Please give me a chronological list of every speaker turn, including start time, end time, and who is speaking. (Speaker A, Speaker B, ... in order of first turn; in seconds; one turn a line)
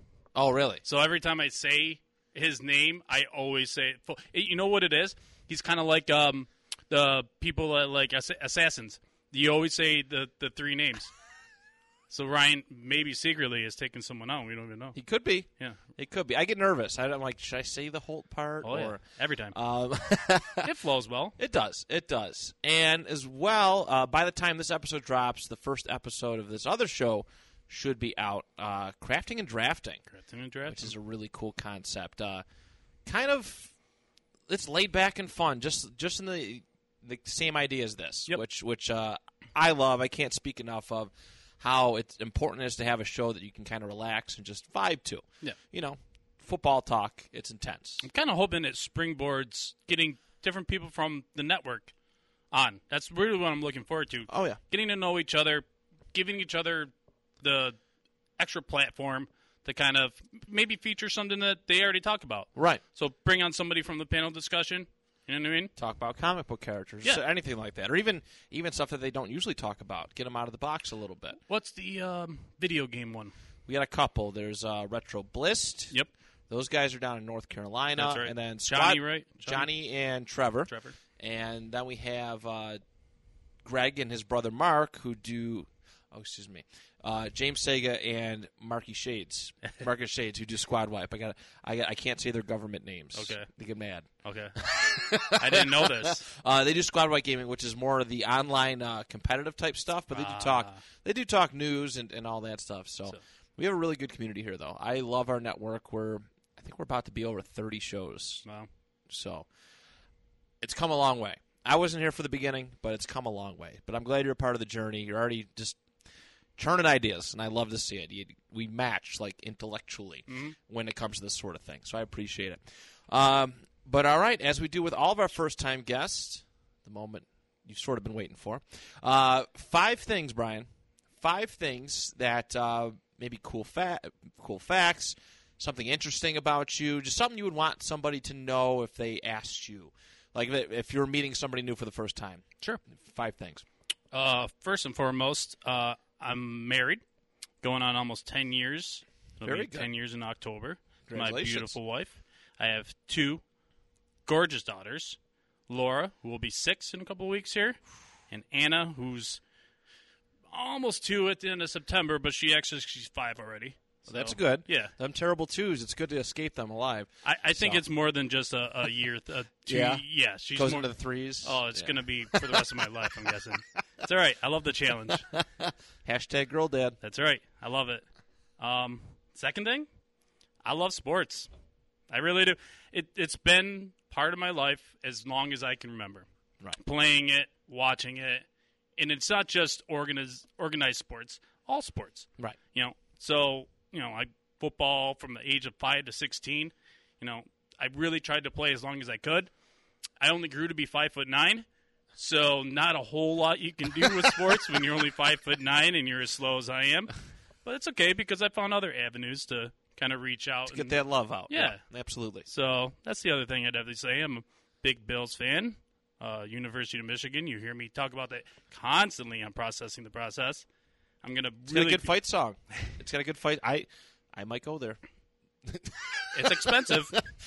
Speaker A: 0.3-0.8
Speaker B: 0.8-11.1
Speaker B: 12.1-15.0
Speaker A: 14.9-19.0
Speaker B: 18.6-19.6
Speaker A: 19.5-20.7
Speaker B: 20.6-21.4
Speaker A: 21.4-30.0
Speaker B: 30.1-30.9
Speaker A: 30.6-32.4
Speaker A: 33.0-33.7
Speaker A: 34.5-48.0
Speaker B: 48.0-51.9
Speaker B: 52.5-57.8
Speaker A: 54.3-54.6
Speaker B: 58.4-65.7
Speaker A: 62.5-62.8
Speaker A: 65.8-71.4
Speaker B: 71.5-73.3
Speaker A: 73.7-75.9
Speaker A: 76.5-82.8
Speaker B: 78.0-79.7
Speaker B: 80.7-81.0
Speaker A: 83.6-108.4
Speaker B: 93.1-93.5
Speaker B: 94.2-94.6
Speaker B: 95.3-96.3
Speaker B: 100.1-100.8
Speaker B: 108.4-108.7
Speaker A: 109.1-109.5
Speaker A: 110.6-115.8
Speaker A: 116.6-143.6
Speaker B: 120.3-120.5
Speaker B: 144.1-147.0
Speaker B: 147.6-153.4
Speaker A: 149.4-149.9
Speaker A: 151.1-151.8
Speaker B: 154.2-159.4
Speaker B: 160.5-164.9
Speaker A: 164.1-167.8
Speaker B: 167.2-170.9
Speaker A: 169.7-172.7
Speaker B: 171.4-175.3
Speaker A: 175.1-177.0
Speaker B: 177.0-178.0
Speaker B: 178.6-179.9
Speaker B: 180.6-181.5
Speaker B: 182.1-188.4
Speaker B: 189.0-199.5
Speaker B: 200.2-207.1
Speaker B: 207.6-210.9
Speaker A: 210.7-212.5
Speaker B: 211.5-211.8
Speaker B: 212.4-220.7
Speaker B: 221.2-222.1
Speaker A: 221.7-225.0
Speaker A: 225.6-227.3
Speaker B: 226.3-227.2